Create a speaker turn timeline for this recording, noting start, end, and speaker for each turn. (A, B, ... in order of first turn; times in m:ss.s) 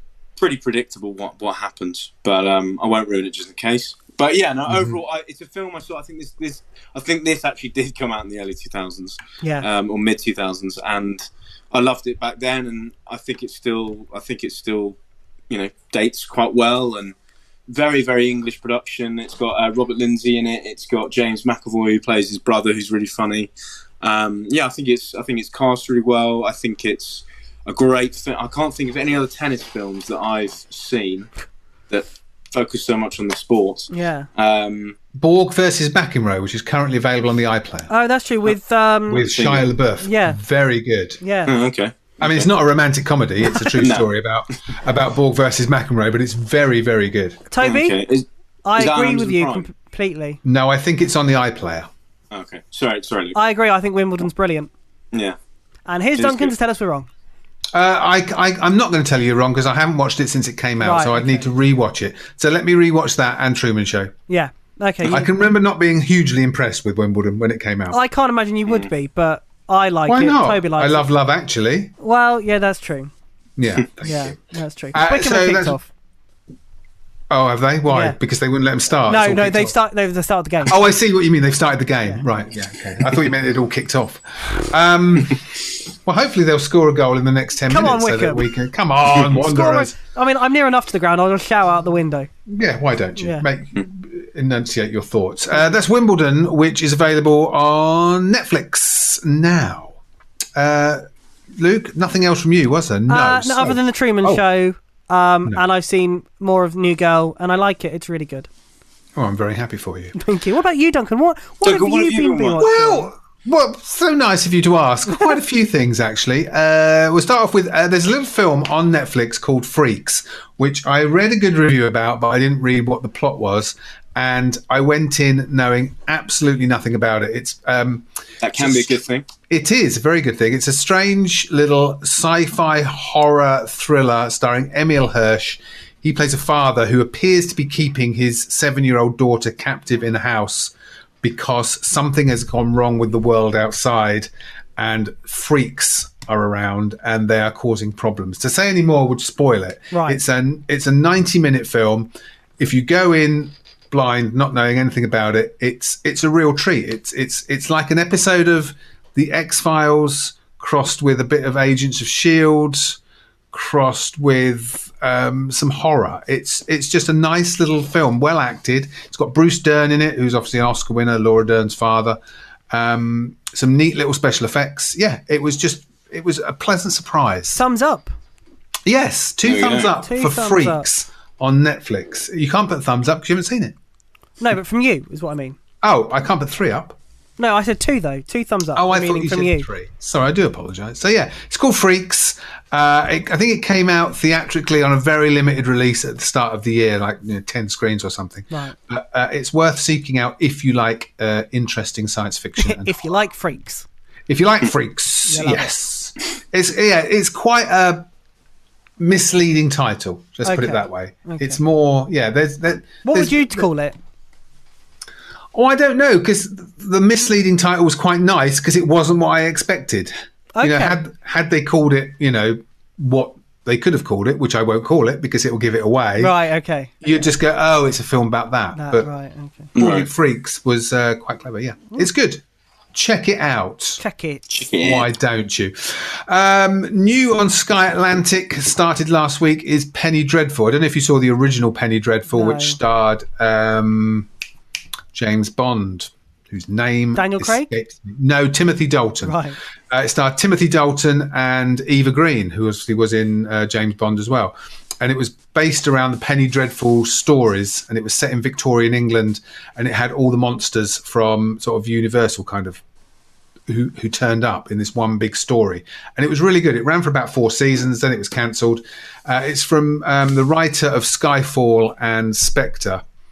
0:00.4-0:15.0 A
0:04.7-0:05.0 B
0:09.4-0:09.7 C
0:15.5-0:17.2 A
0:17.7-0:23.5 A
0:24.0-0:31.3 A
0:31.9-0:35.0 A
0:33.9-0:34.3 C
0:35.2-0:37.9 B
0:37.9-0:39.3 C
0:39.1-0:41.2 B
0:39.2-0:39.7 A
0:40.0-0:40.4 C
0:41.2-0:41.5 C
0:41.5-0:42.5 A
0:42.2-0:47.4 B
0:43.8-0:44.1 A
0:47.5-0:48.0 C
0:47.6-0:49.7 A
0:48.7-0:50.4 C
0:50.4-0:51.9 B
0:52.3-0:53.4 A
0:53.4-0:54.7 C
0:55.9-0:57.1 C
0:56.2-0:56.5 A
0:57.7-1:04.1 B
1:00.8-1:01.4 C
1:04.3-1:05.3 C
1:05.0-1:08.0 B
1:07.9-1:11.1 C
1:10.1-1:11.9 B
1:12.0-1:13.1 C
1:13.6-1:14.4 B
1:14.0-1:15.9 C
1:14.9-1:15.8 B
1:17.3-1:19.8 B
1:17.9-1:18.2 C
1:19.1-1:20.8 C
1:20.6-1:25.4 B
1:26.0-1:30.0 B
1:27.7-1:28.5 C
1:29.3-1:32.3 C
1:32.5-1:40.0 B
1:33.2-1:33.5 C
1:40.6-1:44.4 B
1:43.1-1:48.5 C
1:49.2-1:50.2 B
1:50.2-1:53.1 C
1:51.6-1:52.7 A
1:52.6-2:43.0 B
2:08.4-2:09.3 A
2:29.9-2:30.2 C
2:43.5-2:52.2 B
2:52.7-2:57.6 B
2:57.5-2:58.1 C
2:58.9-3:03.8 B
2:59.4-2:59.9 A
3:00.0-3:00.9 C
3:04.4-3:05.6 C
3:05.8-3:07.0 B
3:07.4-3:09.7 C
3:08.8-3:23.2 B
3:18.5-3:18.8 C
3:22.6-3:23.9 C
3:24.3-3:28.1 B
3:25.3-3:25.7 C
3:29.0-3:33.7 B
3:30.4-3:31.6 C
3:33.0-3:34.0 C
3:35.5-3:46.4 B
3:40.6-3:41.0 C
3:46.2-3:47.3 C
3:47.0-3:49.1 B
3:48.8-3:49.7 C
3:49.8-3:50.1 A
3:49.8-3:52.4 B
3:52.9-3:54.0 B
3:54.0-3:54.4 C
3:54.5-3:55.1 A
3:54.7-4:04.3 B
4:02.3-4:02.8 C
4:05.1-4:22.8 B
4:07.2-4:07.7 C
4:09.2-4:09.6 C
4:23.7-4:33.0 B